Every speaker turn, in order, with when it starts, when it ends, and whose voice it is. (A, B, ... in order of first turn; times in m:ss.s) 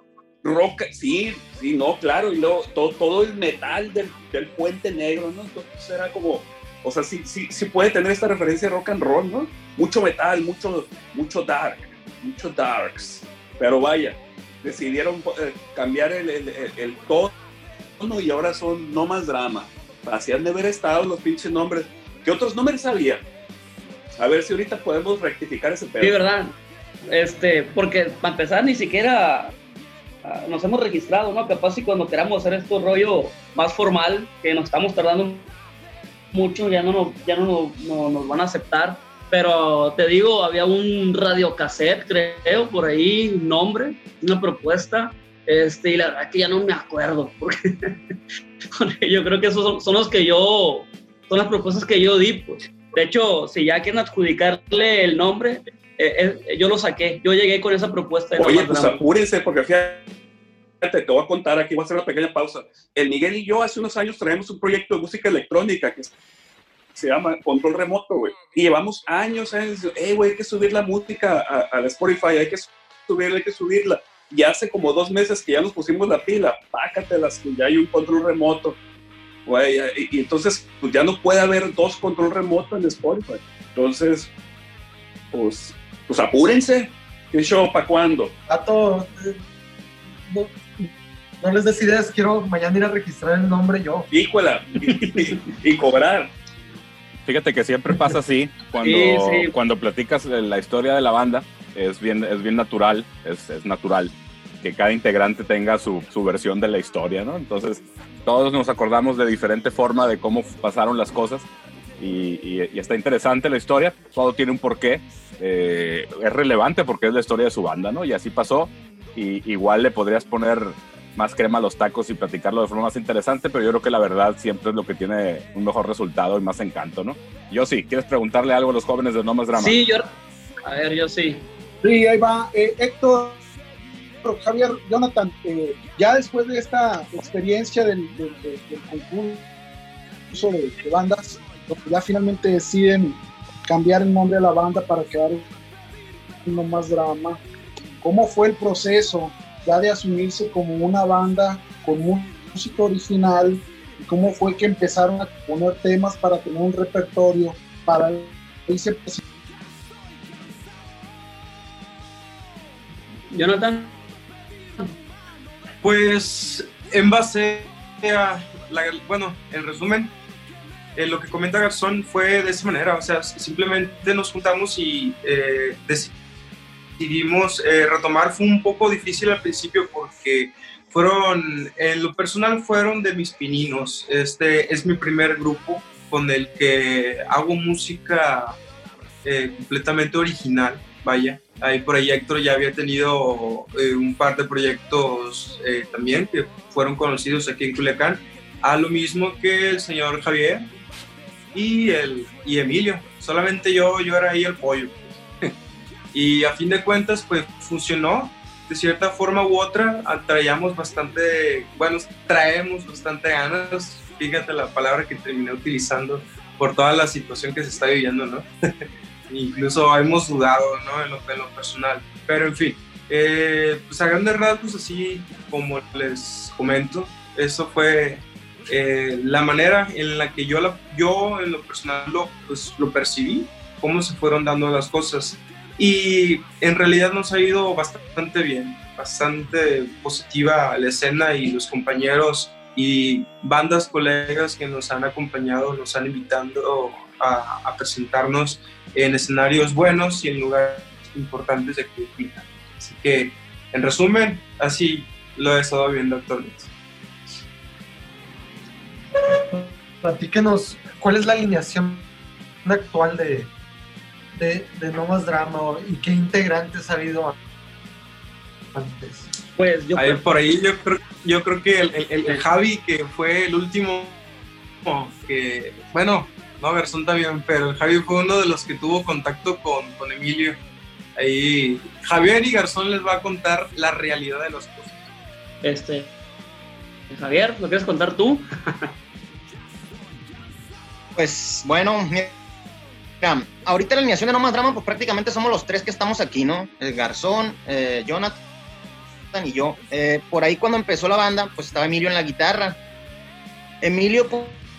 0:00.4-0:17.3 A
0:18.0-0:23.2 A
0:24.2-0:26.2 A
0:26.0-0:26.6 B
0:27.1-0:29.5 B
0:30.2-0:35.5 B
0:36.3-0:47.9 B
0:48.7-0:59.0 B
0:58.4-1:00.1 A
1:00.8-1:06.1 A
1:07.0-1:18.8 A
1:19.4-1:24.3 A
1:25.3-1:28.3 A
1:28.5-1:29.4 C
1:30.3-1:30.9 C
1:31.4-1:34.1 C
1:34.1-1:36.3 A
1:35.0-1:35.3 B
1:37.2-1:51.5 D
1:38.8-1:39.5 B
1:52.0-2:09.8 D
2:09.5-2:10.1 B
2:10.6-2:11.4 B
2:11.8-2:13.4 E
2:14.2-2:19.5 E
2:20.3-2:25.5 E
2:26.4-2:27.4 E
2:28.0-2:39.2 E
2:43.3-2:44.0 B
2:45.8-2:50.1 F
2:51.0-2:56.1 F
2:57.0-3:08.6 F
3:09.2-3:20.7 F
3:21.5-3:25.5 F
3:26.1-3:38.5 F
3:39.3-4:16.7 F
4:19.2-4:22.0 C
4:22.6-4:23.5 C
4:24.3-4:27.4 C
4:28.7-4:29.3 C
4:29.6-4:30.2 B
4:29.9-4:34.2 F
4:34.8-4:40.6 F
4:41.2-4:45.0 F
4:45.6-4:46.1 B
4:47.1-4:48.9 B
4:51.2-4:52.3 G
4:53.2-4:58.4 G
4:59.3-5:02.8 G
5:03.8-5:04.6 G